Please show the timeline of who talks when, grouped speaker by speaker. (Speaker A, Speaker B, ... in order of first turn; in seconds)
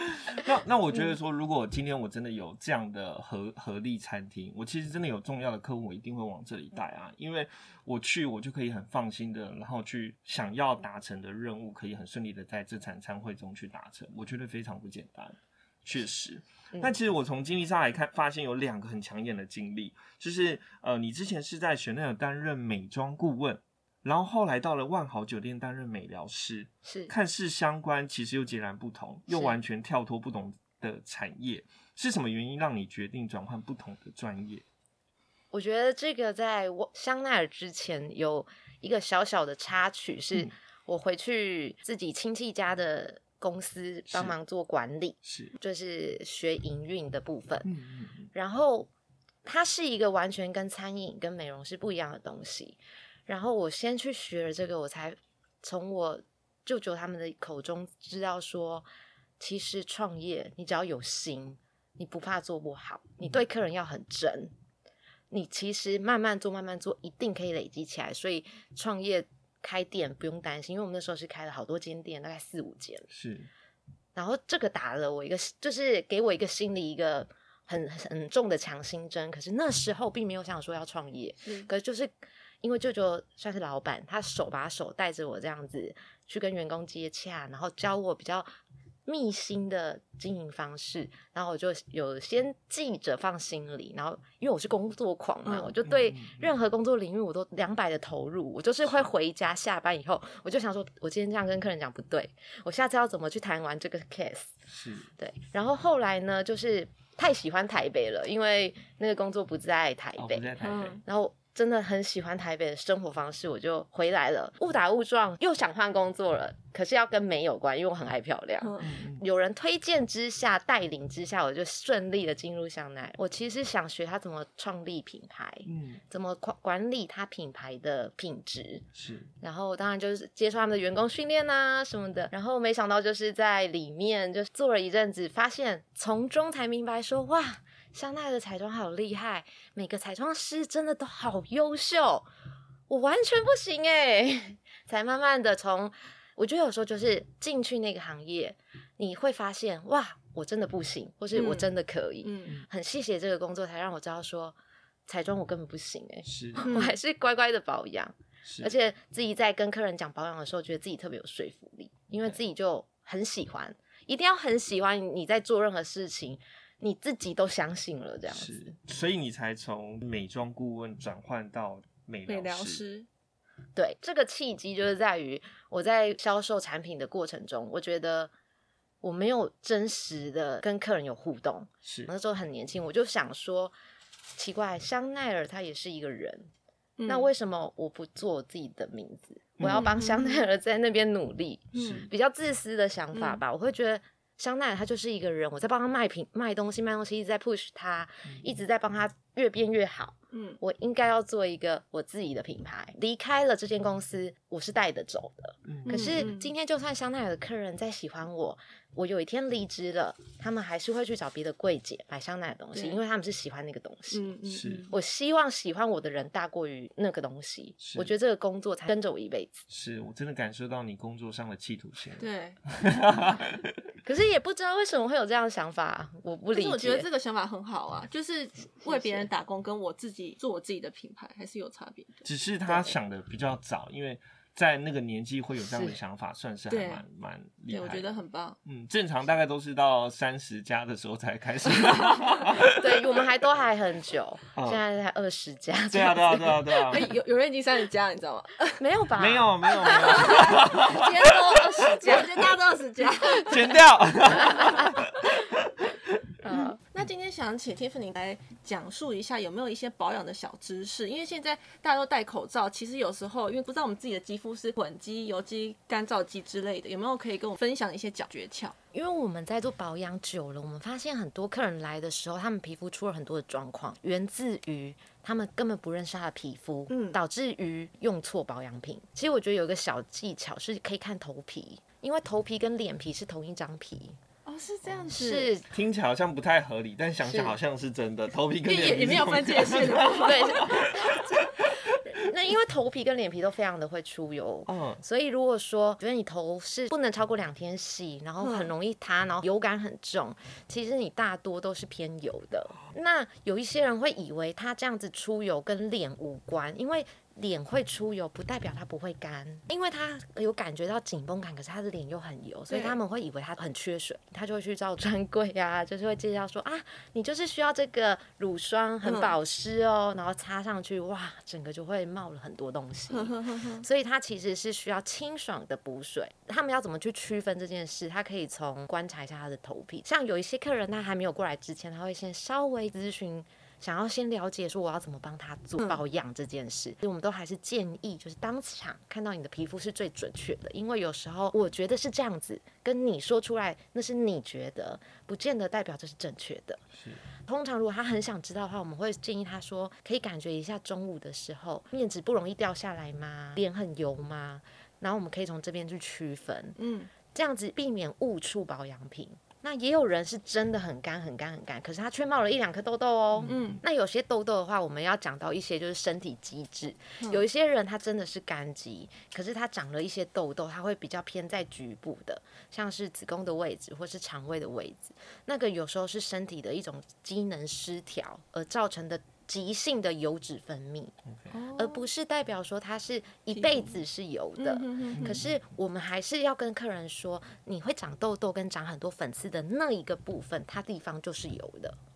Speaker A: 0.1-34.6, 44.1-44.3, 45.2-45.5, 47.6-48.3, 73.1-73.5, 95.8-96.5, 104.7-105.1, 110.2-111.0, 118.8-119.2, 125.7-126.0, 128.9-129.3, 156.2-156.7, 158.4-158.7, 168.3-172.8, 181.8-182.1, 189.6-189.9, 191.7-192.1, 205.7-206.3, 214.5-214.9, 217.8-218.1, 219.7-223.8, 232.2-242.8, 244.5-244.8, 245.9-247.1, 249.2-251.3, 253.4-255.9, 285.7-291.7, 294.7-295.0, 346.9-347.2, 363.3-363.8, 381.2-381.5, 385.1-385.5
Speaker B: 26.8-27.1, 35.5-47.7, 48.3-48.9, 49.4-58.9, 59.4-64.5, 65.3-73.1, 74.1-88.5, 89.0-104.6, 105.2-110.5, 111.0-128.8, 129.4-142.3, 142.9-154.6, 155.1-168.7, 173.8-178.3, 179.0-183.7, 184.3-186.5, 187.1-214.3, 214.9-219.6, 224.0-227.1, 228.8-229.3, 232.7-232.9, 235.6-235.9, 242.6-246.8, 248.8-252.5, 256.4-256.8, 268.9-284.2, 285.1-285.6, 287.2-287.5, 290.0-346.8, 347.4-356.8, 357.3-381.1, 381.7-392.0
Speaker C: 95.5-95.7, 110.6-111.0, 118.6-118.9, 151.3-151.7, 152.2-152.6, 156.6-156.9, 172.3-173.1, 187.0-187.3, 189.6-190.4, 191.7-192.1, 193.1-193.4, 200.3-200.6, 205.8-206.5, 212.7-213.0, 214.1-214.9, 222.2-222.6, 226.5-232.2, 236.7-237.0, 237.7-238.6, 246.8-248.8, 249.8-250.6, 251.8-253.8, 254.5-254.8, 256.5-268.8, 276.9-277.2, 284.4-285.5, 288.6-290.7, 298.4-298.7, 312.7-313.0, 319.0-319.3, 323.1-323.9, 356.8-357.1, 363.4-363.8, 381.5-382.1, 383.5-384.0, 384.6-385.4